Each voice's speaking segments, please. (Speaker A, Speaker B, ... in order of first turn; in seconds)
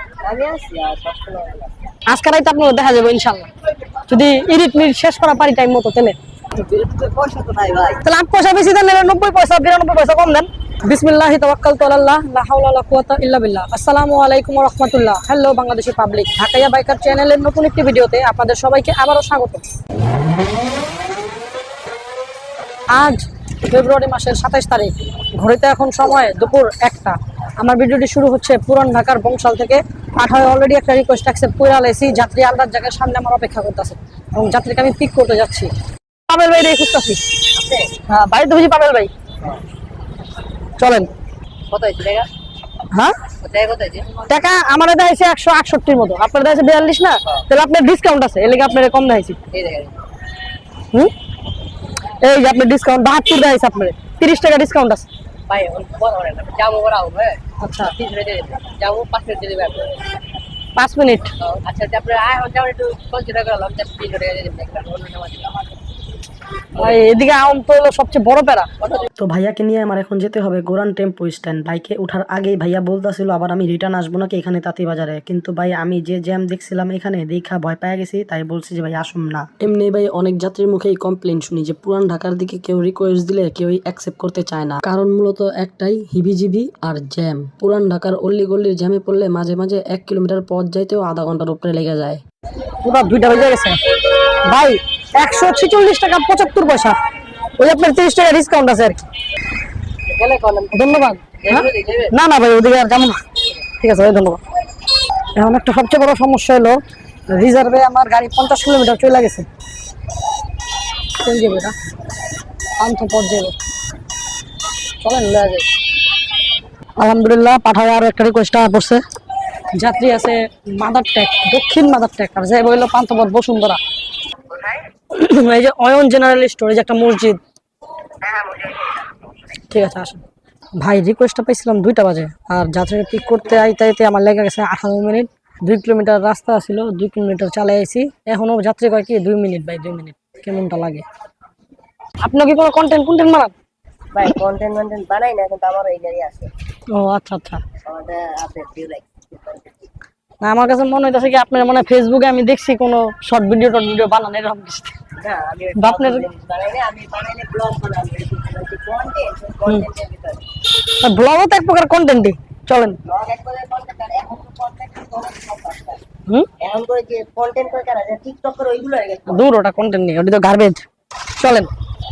Speaker A: 0.2-1.9, 6.5-8.0, 37.5-37.9, 41.7-42.3, 43.4-44.1, 49.5-50.0, 55.5-60.0, 61.4-65.6, 66.8-67.0, 100.1-100.8, 101.4-102.1, 128.4-128.9, 144.1-146.5, 147.9-149.6, 155.2-160.4, 163.1-166.0, 166.6-169.5
Speaker B: 2.1-3.5, 4.1-6.2, 8.0-19.6, 22.9-35.7, 36.3-37.2, 38.1-39.1, 40.8-41.1, 42.9-43.2, 44.3-49.4, 52.2-55.1, 57.6-57.9, 60.8-61.3, 66.8-68.7, 92.8-93.8, 94.4-97.0, 97.6-99.0, 100.7-103.2, 103.8-104.4, 105.3-109.5, 111.2-111.8, 112.8-113.6, 115.0-115.7, 117.0-119.0, 119.7-123.8, 124.6-127.4, 129.6-130.2, 130.8-141.1, 142.2-143.5, 146.9-147.6, 150.4-154.9, 155.8-156.2, 161.0-163.0, 169.3-171.7
Speaker C: 69.2-92.2